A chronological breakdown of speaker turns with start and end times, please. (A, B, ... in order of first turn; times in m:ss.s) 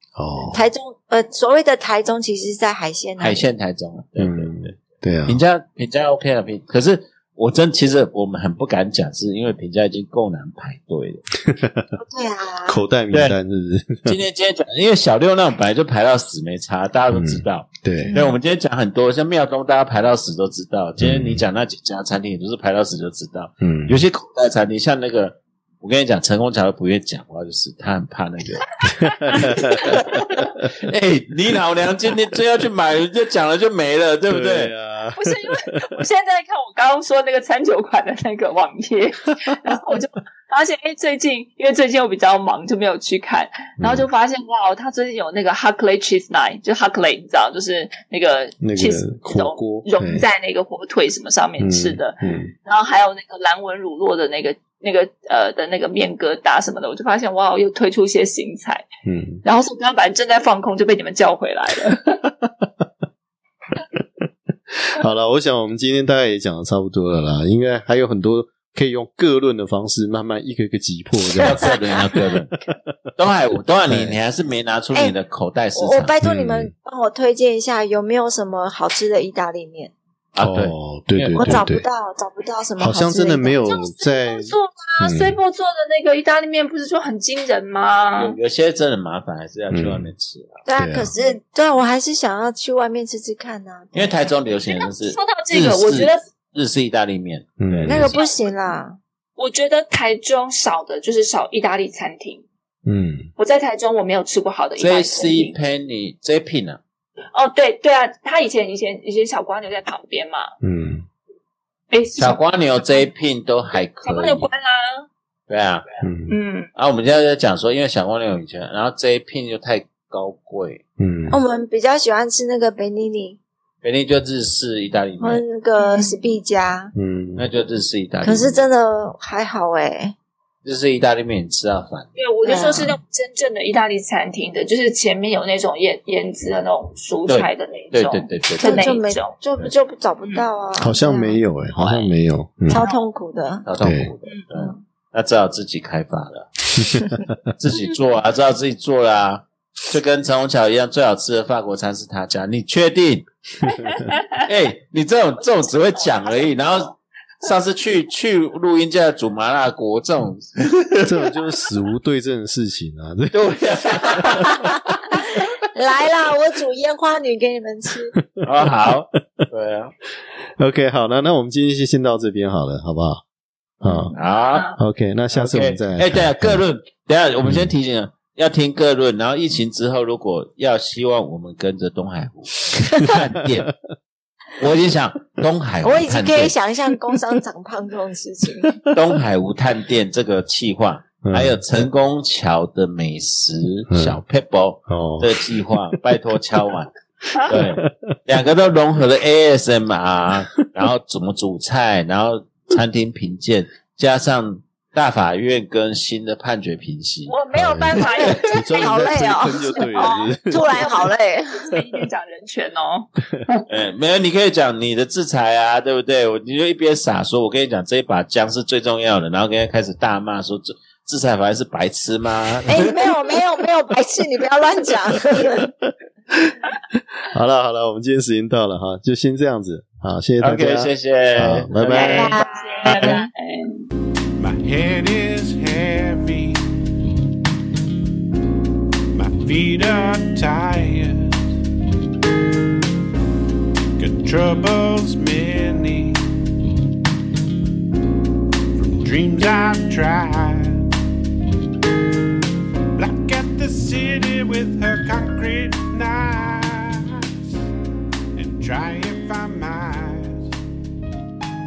0:00.2-0:00.6 A
0:00.5-0:03.4 B
0:03.2-0:11.2 C
0:04.2-0:05.4 A
0:11.4-0:11.8 A
0:12.0-0:12.8 B
0:12.7-0:14.2 A
0:14.0-0:34.7 C
0:17.1-0:18.1 A
0:18.1-0:18.3 B
0:21.0-0:21.4 A
0:23.6-0:24.0 A
0:29.0-0:30.2 A
0:34.3-0:35.8 A
0:35.2-0:58.9 D
0:43.8-0:44.1 A
0:48.6-0:50.2 A
0:51.6-0:52.5 A
0:59.0-0:59.4 A
0:59.4-1:02.2 D
1:02.2-1:02.7 A
1:04.8-1:12.3 A
1:11.4-1:12.5 C
1:13.2-1:16.2 C
1:13.9-1:14.2 A
1:15.7-1:19.9 B
1:16.2-1:16.7 A
1:20.3-1:21.6 C
1:20.4-1:21.8 A
1:21.4-1:23.7 B
1:22.8-1:25.4 A
1:23.6-1:28.4 D
1:28.2-1:30.6 C
1:29.7-1:30.1 A
1:30.6-1:34.3 B
1:30.8-1:31.1 A
1:33.9-1:38.0 C
1:34.7-1:36.2 D
1:37.6-1:38.1 A
1:37.8-1:39.0 B
1:37.9-1:38.4 D
1:39.4-1:42.4 D
1:42.8-1:43.3 A
1:43.4-1:45.6 D
1:44.8-1:46.8 C
1:47.3-1:50.5 D
1:50.6-1:51.0 A
1:51.9-1:53.1 D
1:52.2-1:54.5 C
1:54.0-1:55.1 D
1:55.5-1:55.8 C
1:56.0-1:56.4 A
1:56.3-1:56.7 D
1:56.7-2:00.8 C
2:01.0-2:01.4 A
2:01.3-2:03.4 B
2:03.8-2:05.4 C
2:05.2-2:06.9 B
2:05.8-2:06.2 D
2:06.9-2:07.5 A
2:07.4-2:08.6 C
2:08.2-2:10.1 B
2:10.6-2:12.1 C
2:12.2-2:19.3 D
2:12.4-2:13.0 B
2:17.3-2:19.0 C
2:18.6-2:21.4 B
2:20.8-2:22.8 A
2:21.8-2:22.1 D
2:22.7-2:23.7 B
2:22.7-2:23.0 D
2:23.6-2:26.5 C
2:23.8-2:24.1 A
2:24.5-2:24.8 B
2:26.7-2:27.4 A
2:27.6-2:33.3 C
2:33.6-2:34.4 D
2:33.7-2:34.0 A
2:34.4-2:41.0 C
2:41.0-2:44.7 A
2:43.3-2:44.7 C
2:45.7-2:48.2 B
2:48.4-2:49.9 C
2:50.6-2:53.2 A
2:53.8-2:54.1 A
2:53.9-2:54.8 D
2:54.1-2:54.7 C
2:54.8-2:56.6 A
2:55.3-3:03.7 C
2:57.4-2:57.7 A
3:04.6-3:06.6 C
3:05.8-3:08.8 B
3:08.6-3:08.9 A
3:08.9-3:16.9 C
3:11.2-3:11.9 A
3:13.9-3:14.2 A
3:14.9-3:15.9 A
3:17.5-3:18.2 A
3:17.5-3:27.4 C
3:27.3-3:33.6 D
3:27.5-3:30.9 A
3:27.9-3:28.4 C
3:28.2-3:31.8 B
3:33.7-3:43.1 C
3:42.7-3:45.7 B
3:45.4-3:45.9 A
3:47.2-3:52.2 A
3:50.4-3:53.1 C
3:51.9-3:53.2 B
3:51.9-3:53.9 D
3:54.4-3:56.6 E
3:59.1-4:01.4 E
4:04.0-4:06.2 E
4:08.7-4:10.9 E
4:13.0-4:17.5 E
4:18.3-4:20.6 E